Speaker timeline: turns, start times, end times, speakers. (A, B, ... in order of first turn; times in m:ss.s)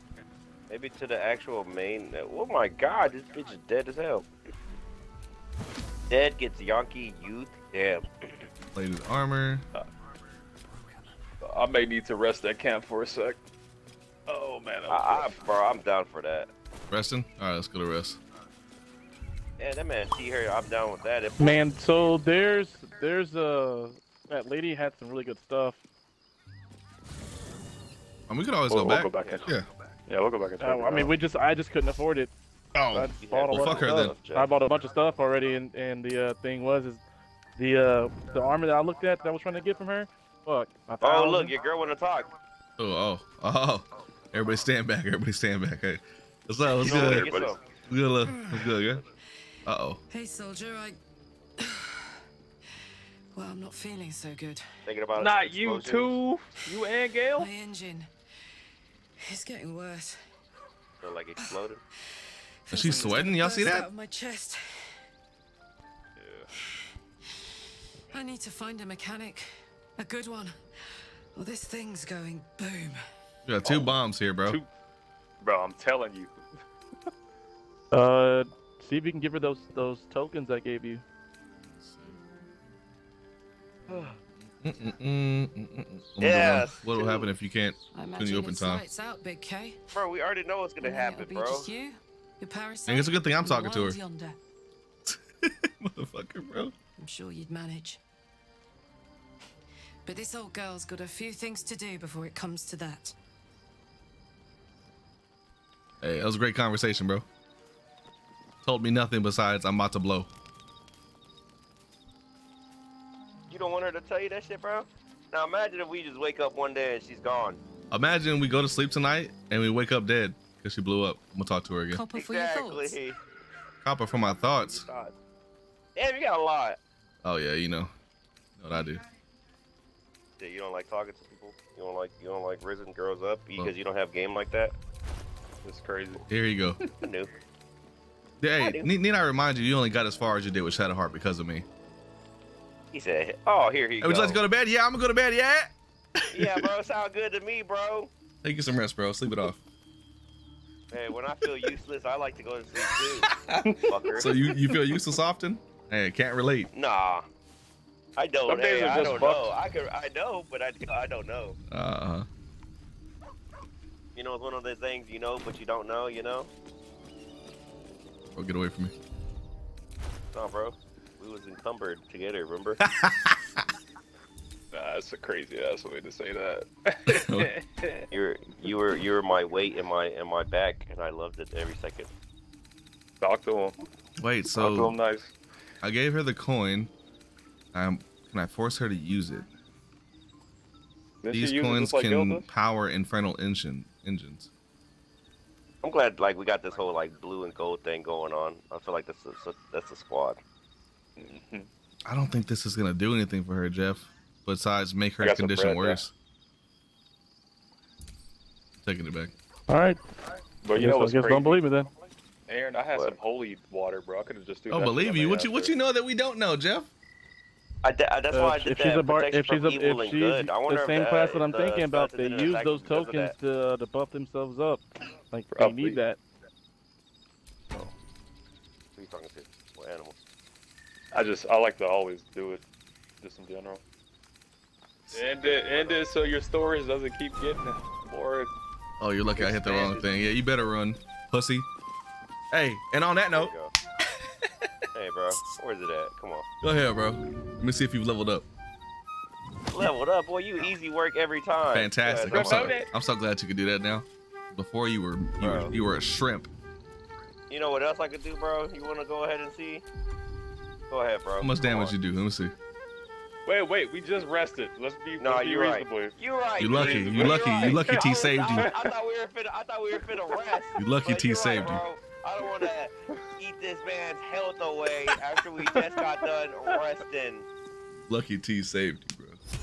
0:00.7-0:04.3 A
0:06.1-0:08.5 A
0:08.8-0:09.6 B
0:11.4-0:13.4 C
0:14.3-0:15.4 C
0:14.9-0:16.5 A
0:16.9-0:18.2 B
0:19.6-0:21.6 A
0:21.4-0:25.8 D
0:28.3-0:29.7 B
0:28.7-0:29.5 C
0:29.2-0:29.5 A
0:30.1-0:31.2 C
0:30.6-0:32.3 D
0:32.7-0:34.2 B
0:32.9-0:37.0 D
0:33.2-0:34.5 A
0:37.6-0:41.5 D
0:41.0-0:42.3 A
0:42.8-0:47.3 B
0:46.8-0:47.6 A
0:46.8-0:47.5 C
0:47.9-0:49.0 B
0:48.2-0:48.8 E
0:49.7-0:50.0 B
0:50.1-0:51.0 E
0:51.6-0:52.2 E
0:53.3-0:54.8 E
0:54.9-0:56.2 A
0:55.2-0:57.5 C
0:57.4-0:58.1 E
0:59.2-1:00.4 E
1:01.0-1:01.8 A
1:02.2-1:05.0 E
1:02.7-1:03.9 B
1:02.8-1:03.2 C
1:06.2-1:06.5 C
1:08.1-1:13.0 E
1:13.4-1:14.6 B
1:13.6-1:14.7 C
1:15.4-1:16.3 C
1:17.9-1:21.0 D
1:21.6-1:22.2 B
1:24.6-1:28.8 B
1:26.2-1:27.3 A
1:27.9-1:29.8 E
1:29.9-1:31.7 A
1:30.8-1:34.4 E
1:32.9-1:34.0 B
1:35.0-1:36.7 B
1:37.0-1:38.0 E
1:40.0-1:43.2 E
1:46.0-1:47.3 B
1:48.6-1:50.3 B
1:53.5-1:57.6 A
1:57.9-2:02.0 B
2:01.9-2:03.0 E
2:02.1-2:03.2 A
2:03.8-2:04.9 B
2:04.6-2:05.1 A
2:06.0-2:06.8 A
2:07.2-2:07.9 B
2:08.6-2:09.0 B
2:10.4-2:14.8 A
2:15.6-2:16.3 C
2:16.3-2:16.8 B
2:17.0-2:17.3 A
2:18.4-2:21.7 B
2:18.6-2:18.9 A
2:22.9-2:24.4 A
2:24.0-2:26.7 B
2:26.3-2:28.1 A
2:28.4-2:29.6 B
2:30.9-2:33.3 A
2:33.0-2:36.7 B
2:33.6-2:34.3 C
2:33.9-2:34.3 A
2:36.7-2:37.3 A
2:38.2-2:41.6 A
2:38.5-2:39.5 C
2:41.7-2:42.3 B
2:44.2-2:46.5 A
2:48.3-2:48.9 B
2:50.3-2:52.8 A
2:52.8-2:53.6 B
2:54.7-2:58.1 C
2:57.1-2:57.5 B
2:58.1-3:02.1 A
3:03.2-3:03.8 C
3:04.2-3:05.0 B
3:04.6-3:05.3 C
3:05.8-3:06.9 B
3:07.7-3:09.5 B
3:11.2-3:12.5 C
3:11.3-3:14.5 B
3:15.8-3:20.4 A
3:21.2-3:21.7 C
3:22.1-3:26.1 B
3:25.2-3:26.0 C
3:28.8-3:29.3 B
3:29.7-3:30.0 D
3:30.6-3:31.6 C
3:30.8-3:31.9 D
3:32.5-3:35.7 C
3:34.7-3:36.9 B
3:37.8-3:43.3 A
3:38.3-3:46.2 D
3:45.6-3:46.0 C
3:49.0-3:50.2 A
3:51.1-3:52.6 C
3:53.2-3:53.8 C
3:55.1-3:56.0 A
3:55.1-3:58.5 C
3:59.0-4:01.7 B
3:59.4-4:00.1 C
4:02.5-4:04.7 B
4:03.3-4:03.7 A
4:05.0-4:06.5 A
4:06.6-4:08.5 B
4:09.7-4:12.8 A
4:11.7-4:16.5 B
4:12.2-4:12.9 C
4:15.4-4:15.7 A
4:17.5-4:19.8 A
4:20.9-4:21.9 A
4:21.4-4:22.5 B
4:23.5-4:28.8 C
4:25.2-4:37.5 A
4:26.6-4:28.7 B
4:30.8-4:31.8 B
4:38.1-4:39.4 B